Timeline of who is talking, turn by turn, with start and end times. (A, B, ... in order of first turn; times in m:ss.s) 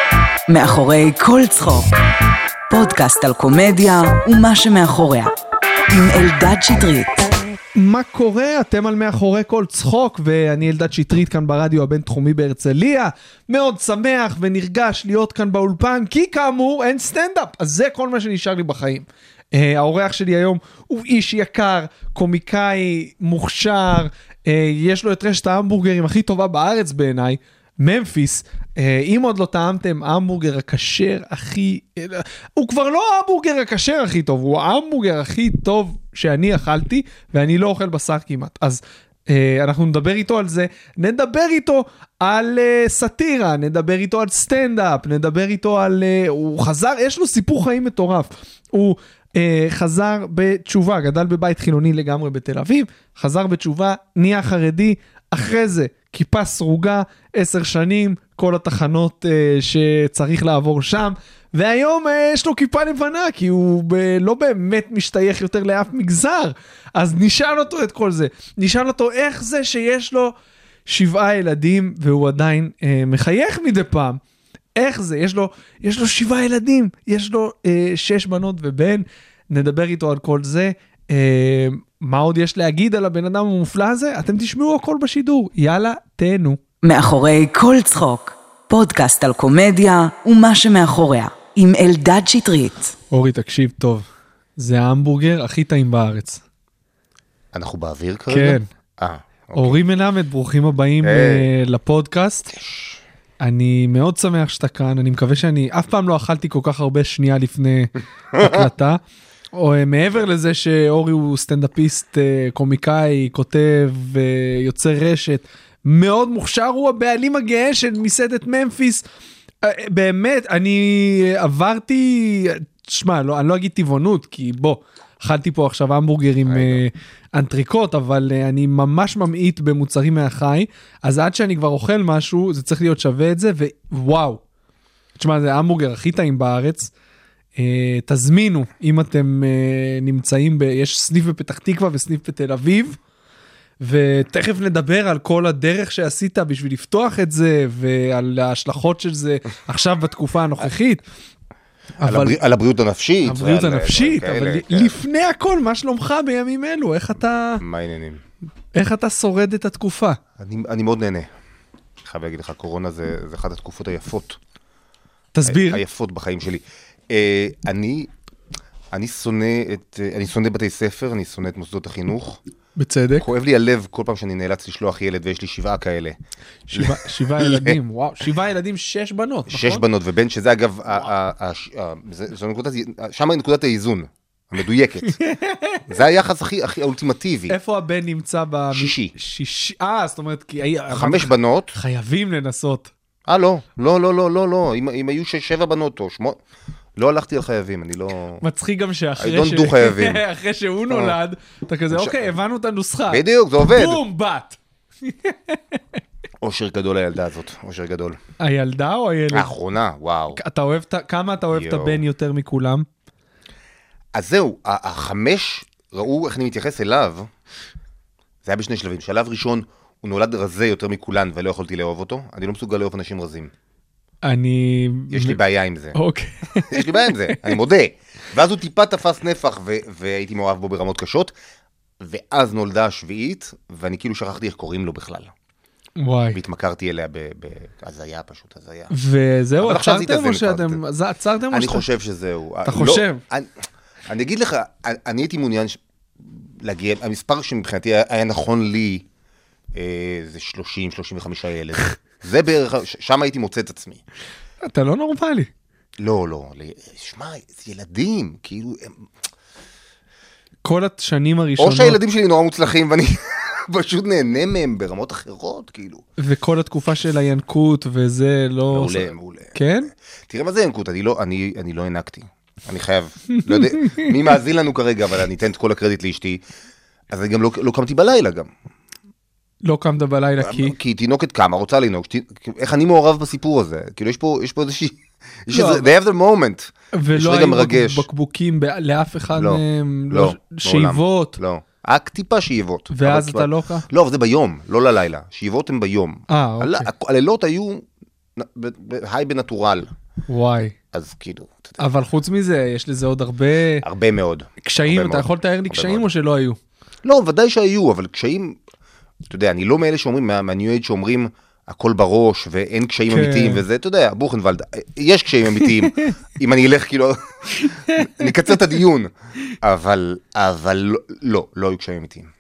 0:00.5-0:02.0 A
0:02.7-0:05.3 A
0:05.9-0:07.3 A
0:07.8-1:10.4 B
1:10.9-1:14.2 B
1:14.8-1:26.6 B
1:26.8-1:33.0 A
1:33.1-1:36.4 B
1:37.5-1:39.8 C
1:38.3-1:38.7 B
1:39.6-1:42.5 B
1:41.0-1:41.5 C
1:42.5-1:43.0 C
1:43.4-1:49.0 B
1:48.3-1:48.7 C
1:49.5-1:59.0 B
1:59.6-2:14.4 B
2:06.4-2:06.8 C
2:15.2-2:16.9 B
2:17.6-2:23.0 B
2:23.8-2:31.0 B
2:32.0-2:32.4 B
2:32.0-2:35.0 C
2:33.2-2:37.6 B
2:37.6-2:38.2 C
2:38.7-2:40.2 B
2:40.4-2:41.3 C
2:42.0-2:44.4 C
2:45.3-2:45.8 B
2:45.4-2:48.1 C
2:48.9-2:52.4 C
2:52.8-2:53.3 B
2:53.2-2:56.2 C
2:56.7-2:59.8 B
2:56.7-2:57.8 C
2:59.5-3:05.2 C
3:05.1-3:05.8 B
3:05.9-3:07.6 C
3:07.5-3:12.9 B
3:08.7-3:09.1 C
3:10.9-3:11.8 C
3:13.3-3:16.4 C
3:17.0-3:18.4 C
3:18.4-3:25.8 B
3:19.2-3:20.2 C
3:20.9-3:21.2 C
3:21.9-3:22.3 C
3:23.1-3:24.0 C
3:26.4-3:28.2 C
3:28.4-3:29.5 B
3:29.3-3:30.4 C
3:30.4-3:32.9 B
3:31.5-3:32.0 C
3:34.1-3:37.3 C
3:38.4-3:43.5 C
3:44.2-3:45.4 B
3:45.1-3:46.0 C
3:45.9-3:47.5 B
3:46.7-3:51.3 C
3:52.0-3:55.3 C
3:56.0-3:56.4 B
3:56.3-3:58.9 C
3:58.9-4:01.9 B
3:59.6-4:00.8 C
4:01.5-4:03.5 C
4:02.6-4:03.2 B
4:04.1-4:09.1 C
4:09.7-4:14.0 C
4:14.6-4:15.5 B
4:16.0-4:19.1 C
4:20.6-4:22.0 B
4:21.6-4:26.1 C
4:26.2-4:29.9 B
4:28.7-4:29.6 C
4:30.3-4:36.4 C
4:33.4-4:34.1 B
4:37.1-4:38.5 C
4:39.6-4:40.8 B
4:40.4-4:48.1 C
4:45.5-4:45.9 B
4:46.9-4:51.4 B
4:49.3-4:59.9 C
4:52.9-4:53.9 B
4:56.3-4:56.9 B
5:00.3-5:00.8 B
5:00.9-5:01.8 C
5:01.8-5:03.8 B
5:03.8-5:06.1 C
5:04.6-5:06.6 B
5:07.0-5:08.6 C
5:09.3-5:22.3 C
5:13.1-5:13.6 B
5:17.6-5:18.3 B